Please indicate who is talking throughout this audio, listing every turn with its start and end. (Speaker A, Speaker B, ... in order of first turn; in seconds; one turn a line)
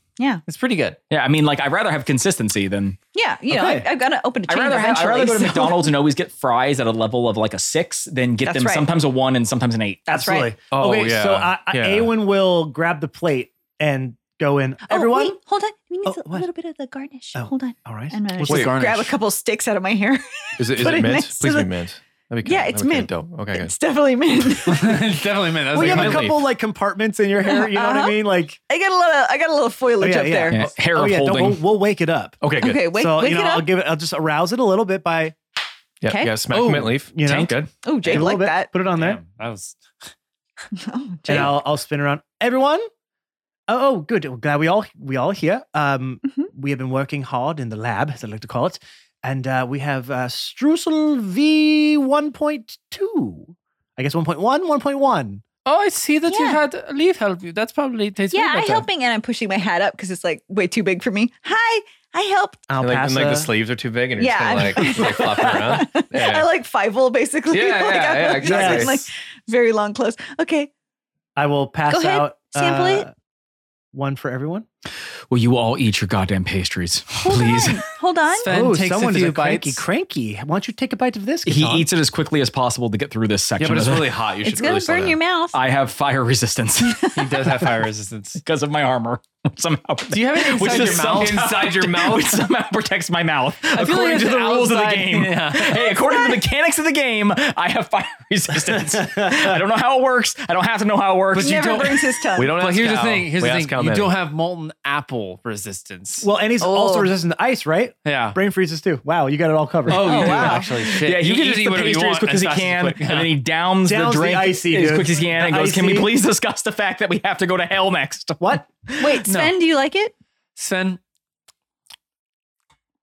Speaker A: 0.2-0.4
Speaker B: 0.5-1.0
Speaker C: 1.1-3.0
Speaker A: 3.1-6.0
Speaker D: 3.5-3.9
Speaker C: 4.5-10.2
Speaker A: 8.4-8.9
Speaker D: 10.1-15.4
Speaker A: 10.1-10.6
Speaker E: 10.7-12.1
Speaker A: 14.9-21.7
Speaker D: 16.1-16.5
Speaker D: 17.4-18.2
Speaker B: 18.3-19.1
Speaker E: 18.5-18.8
Speaker E: 20.6-23.7
Speaker A: 22.4-25.0
Speaker B: 24.6-26.4
Speaker D: 25.7-28.6
Speaker C: 25.9-26.2
Speaker E: 25.9-26.3
Speaker A: 27.4-30.6
Speaker D: 30.0-35.4
Speaker C: 30.5-31.6
Speaker C: 32.4-32.8
Speaker A: 32.5-33.7
Speaker E: 36.0-37.1
Speaker A: 36.1-36.4
Speaker C: 36.5-38.2
Speaker D: 36.9-39.2
Speaker A: 37.8-38.7
Speaker B: 38.9-39.8
Speaker A: 40.8-41.6
Speaker D: 41.3-42.9
Speaker D: 43.7-55.4
Speaker B: 55.7-58.9
Speaker A: 56.3-56.6
Speaker A: 58.3-62.7
Speaker D: 62.7-63.5
Speaker E: 62.8-66.5
Speaker A: 64.2-70.7
Speaker D: 64.8-65.4
Speaker E: 67.5-69.0
Speaker D: 68.4-69.1
Speaker D: 71.4-73.1
Speaker A: 71.9-73.1
Speaker D: 73.9-74.7
Speaker C: 75.3-77.8
Speaker A: 77.2-78.5
Speaker B: 78.3-79.8
Speaker D: 78.5-81.9
Speaker C: 81.5-84.2
Speaker E: 83.6-85.2
Speaker A: 84.4-85.6
Speaker C: 85.5-87.2
Speaker A: 86.9-87.1
Speaker B: 87.1-88.4
Speaker C: 88.4-102.0
Speaker B: 90.1-91.6
Speaker E: 90.5-92.5
Speaker B: 93.7-95.9
Speaker A: 96.0-96.4
Speaker D: 99.0-99.4
Speaker B: 101.3-106.3
Speaker A: 101.3-102.6
Speaker E: 102.3-104.2
Speaker D: 106.2-110.2
Speaker A: 106.6-107.1
Speaker B: 108.0-108.4
Speaker B: 109.9-113.3
Speaker C: 109.9-119.3
Speaker A: 110.0-110.7
Speaker D: 113.8-116.1
Speaker D: 118.4-118.7
Speaker A: 119.0-120.1
Speaker B: 119.3-119.5
Speaker B: 120.6-121.0